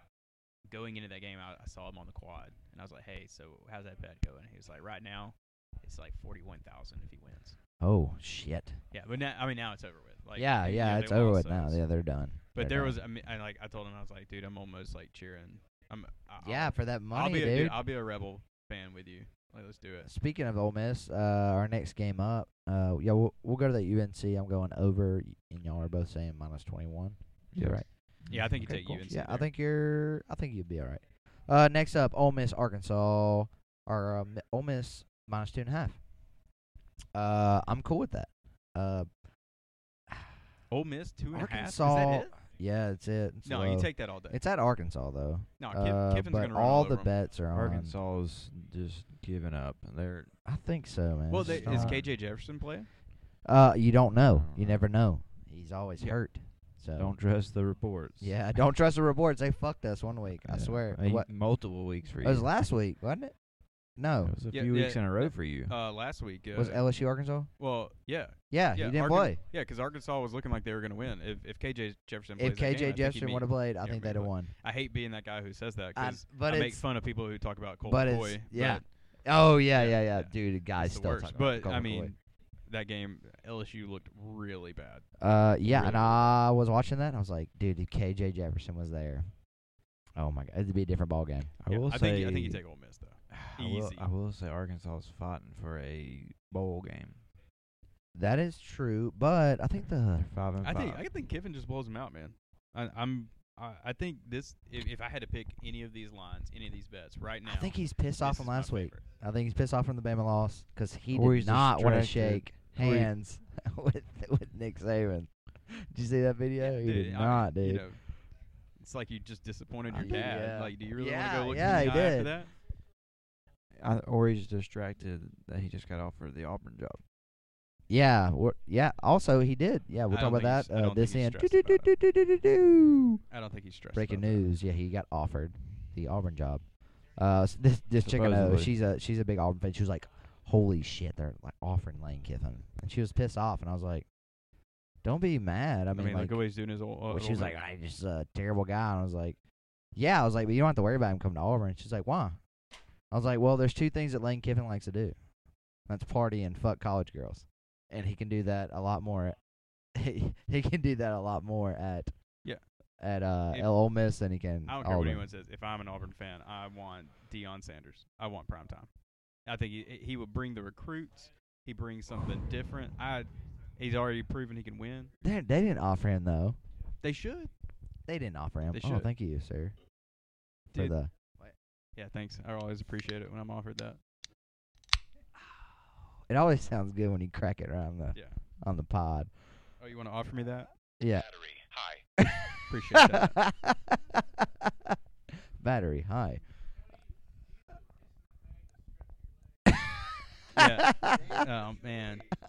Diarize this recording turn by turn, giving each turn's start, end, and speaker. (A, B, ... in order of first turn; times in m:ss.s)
0:00.7-0:07.6 A
0:07.8-0:08.8 B
0:08.9-0:11.8 A
0:10.4-0:13.0 B
0:12.5-0:20.1 A
0:16.4-0:17.8 B
0:20.0-0:36.0 B
0:27.5-0:29.0 C
0:28.2-0:29.5 A
0:37.1-0:39.1 B
0:40.7-0:42.3 A
0:41.3-0:48.0 B
0:43.4-0:44.4 A
0:45.6-0:47.1 A
0:47.5-0:50.3 C
0:50.4-0:52.0 B
0:51.3-0:52.9 A
0:51.4-0:52.1 C
0:53.4-0:57.2 B
0:54.3-0:54.9 C
0:56.0-0:56.3 C
0:56.9-0:58.4 C
0:58.2-1:01.3 B
1:00.4-1:02.5 C
1:02.2-1:03.4 B
1:04.0-1:04.4 B
1:04.2-1:05.8 C
1:04.5-1:06.9 A
1:06.6-1:07.5 B
1:07.6-1:26.3 A
1:08.5-1:09.4 B
1:12.4-1:14.5 B
1:16.0-1:16.9 B
1:17.8-1:22.1 B
1:25.2-1:29.4 B
1:30.2-1:31.5 B
1:31.6-1:32.6 C
1:31.7-1:34.1 A
1:33.5-1:37.2 C
1:38.2-1:40.3 B
1:40.2-1:41.0 C
1:40.6-1:49.0 A
1:47.4-1:57.9 B
1:51.1-1:53.1 C
1:56.6-1:58.2 A
1:58.8-2:02.5 A
1:59.9-2:00.3 C
1:59.9-2:02.4 B
2:01.6-2:01.9 C
2:03.8-2:07.0 C
2:07.9-2:13.2 B
2:10.1-2:11.9 A
2:13.3-2:14.5 A
2:13.9-2:24.1 B
2:18.0-2:18.7 C
2:25.0-2:26.4 B
2:25.9-2:27.6 A
2:27.1-2:29.4 B
2:30.0-2:32.4 B
2:33.1-2:35.2 B
2:35.9-2:39.4 B
2:40.0-2:42.4 B
2:43.0-2:45.3 B
2:43.5-2:43.9 A
2:44.7-2:48.9 A
2:49.4-2:55.1 A
2:55.2-2:56.6 B
2:57.0-2:57.5 A
2:58.1-2:59.8 B
2:58.7-2:59.1 A
3:00.7-3:01.3 A
3:00.8-3:01.5 B
3:02.0-3:04.0 A
3:06.3-3:09.3 B
3:08.1-3:08.4 A
3:09.8-3:10.7 A
3:11.0-3:11.5 B
3:12.2-3:14.2 B
3:12.7-3:13.4 A
3:15.6-3:16.4 B
3:20.6-3:21.4 B
3:20.6-3:22.4 A